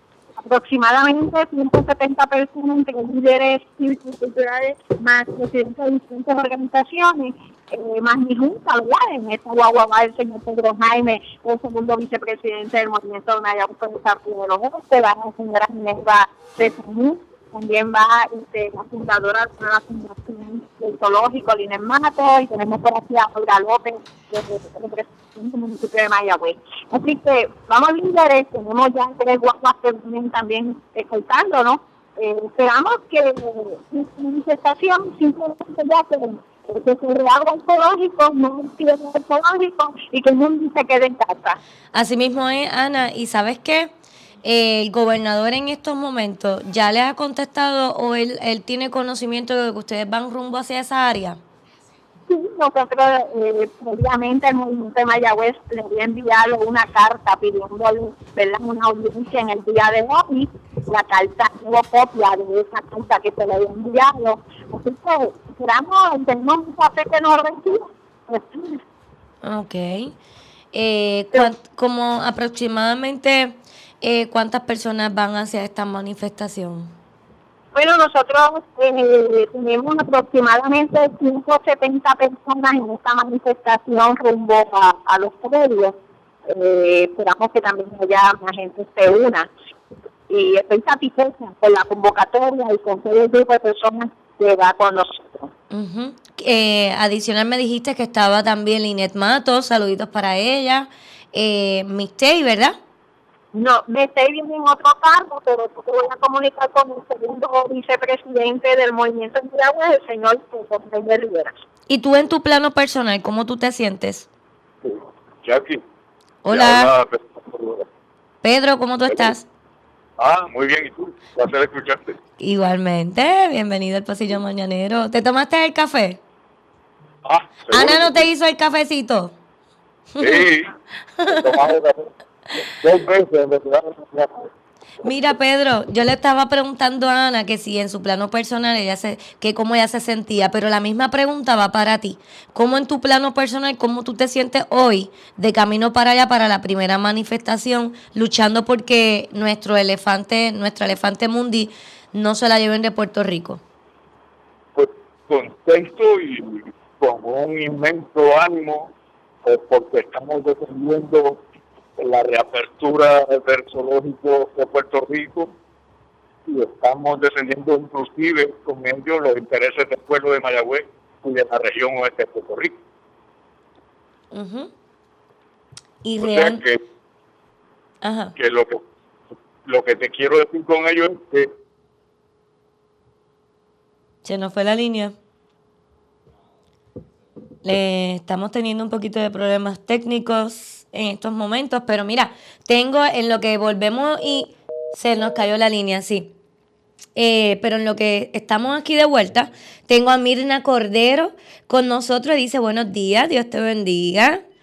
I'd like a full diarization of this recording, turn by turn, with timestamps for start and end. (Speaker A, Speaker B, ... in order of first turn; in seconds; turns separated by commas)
Speaker A: 0.4-41.6, Speaker B: 41.9-43.9, Speaker B: 44.4-51.4, Speaker A: 52.3-68.8, Speaker B: 69.4-70.2, Speaker B: 70.7-76.9, Speaker A: 77.7-89.5, Speaker A: 90.3-95.5, Speaker B: 95.7-102.8, Speaker A: 103.5-111.5, Speaker B: 111.9-114.3, Speaker C: 114.8-115.8, Speaker B: 116.4-116.9, Speaker C: 116.5-117.8, Speaker B: 118.4-119.4, Speaker C: 119.1-119.3, Speaker C: 120.2-122.2, Speaker B: 122.4-126.2, Speaker C: 127.2-128.3, Speaker B: 127.7-129.3, Speaker B: 130.2-130.5, Speaker C: 130.2-130.7, Speaker B: 131.2-131.6, Speaker C: 131.3-134.4, Speaker B: 135.0-153.6, Speaker C: 154.8-158.9, Speaker C: 159.4-161.4, Speaker C: 162.0-165.5, Speaker C: 166.5-172.8, Speaker B: 174.3-174.7, Speaker B: 176.0-176.6, Speaker C: 176.2-176.8, Speaker B: 178.0-178.3, Speaker C: 178.4-178.8, Speaker C: 179.7-181.5, Speaker B: 184.2-185.2, Speaker B: 187.6-196.3, Speaker B: 197.2-204.4